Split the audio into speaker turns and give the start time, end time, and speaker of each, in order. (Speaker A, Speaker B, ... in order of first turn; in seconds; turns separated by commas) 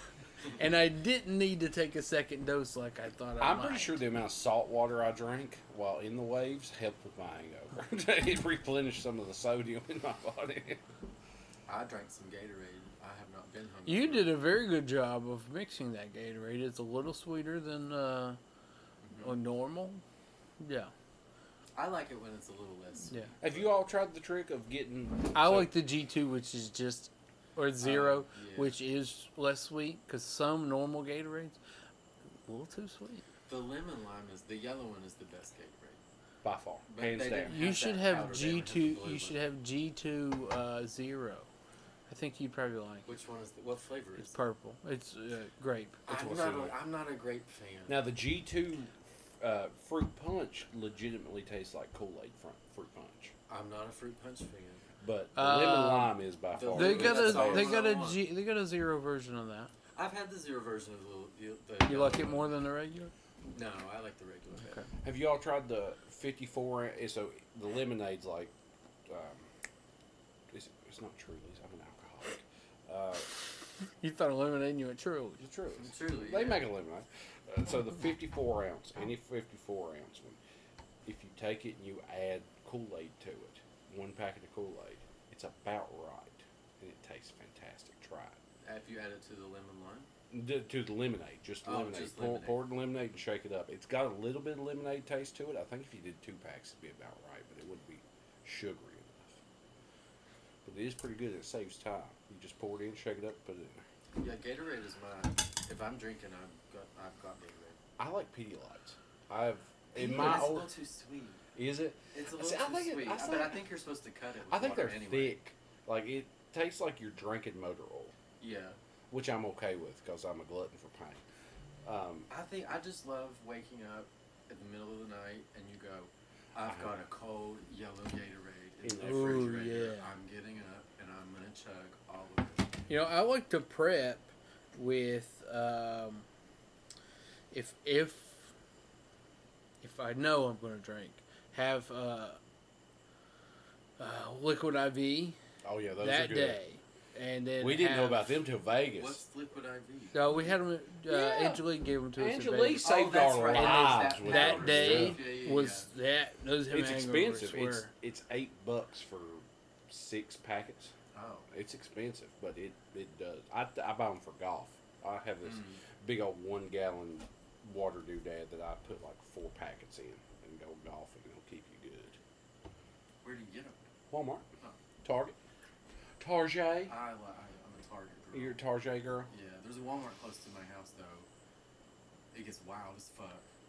Speaker A: 0.5-4.0, Speaker B: 3.4-10.8, Speaker C: 11.7-14.4, Speaker A: 13.9-18.4, Speaker C: 19.0-19.4, Speaker A: 19.2-20.0, Speaker A: 20.6-20.9, Speaker C: 21.8-23.7, Speaker B: 23.4-25.8, Speaker A: 25.3-31.6, Speaker C: 27.8-28.8, Speaker A: 32.5-33.2, Speaker C: 33.5-36.0, Speaker B: 36.4-37.6, Speaker C: 36.9-39.4, Speaker A: 37.5-41.5, Speaker A: 42.1-43.1, Speaker C: 43.1-44.4, Speaker A: 44.2-46.0, Speaker C: 46.1-48.0, Speaker B: 46.1-46.8, Speaker B: 47.9-53.3, Speaker C: 53.5-54.8, Speaker B: 55.0-57.8, Speaker A: 55.4-56.2, Speaker C: 56.5-58.3, Speaker A: 56.7-59.7, Speaker C: 60.0-62.5, Speaker A: 61.9-63.1, Speaker C: 63.5-64.9, Speaker B: 65.0-68.5, Speaker B: 69.1-69.5, Speaker B: 70.5-73.3, Speaker A: 74.0-75.4, Speaker B: 75.4-80.4, Speaker C: 75.8-76.7, Speaker B: 81.0-88.4, Speaker C: 88.7-90.1, Speaker B: 90.3-99.4, Speaker C: 91.6-92.6, Speaker B: 100.7-103.8, Speaker C: 104.2-107.8, Speaker B: 108.0-110.7, Speaker C: 109.9-111.5, Speaker B: 111.5-113.6, Speaker C: 112.1-115.4, Speaker B: 114.5-118.1, Speaker C: 118.4-118.8, Speaker B: 119.1-121.2, Speaker B: 121.8-122.3, Speaker C: 122.3-132.9, Speaker B: 126.6-127.0, Speaker B: 128.8-129.7, Speaker A: 129.0-130.1, Speaker A: 132.9-136.3, Speaker A: 137.5-138.5, Speaker A: 139.8-142.4, Speaker A: 144.0-145.4, Speaker B: 145.6-146.6, Speaker A: 146.0-148.4, Speaker B: 147.6-149.2, Speaker C: 148.9-150.3, Speaker A: 150.1-152.9, Speaker B: 151.1-151.7, Speaker B: 152.2-155.2, Speaker C: 152.8-155.9, Speaker A: 153.5-157.9, Speaker B: 156.7-160.9, Speaker C: 161.1-161.5, Speaker B: 161.5-172.2, Speaker C: 165.4-165.8, Speaker C: 173.2-173.8, Speaker B: 174.1-174.5, Speaker B: 175.0-175.3, Speaker B: 176.2-176.9, Speaker C: 176.9-178.6, Speaker B: 178.3-179.3, Speaker C: 179.3-181.3, Speaker C: 182.3-183.4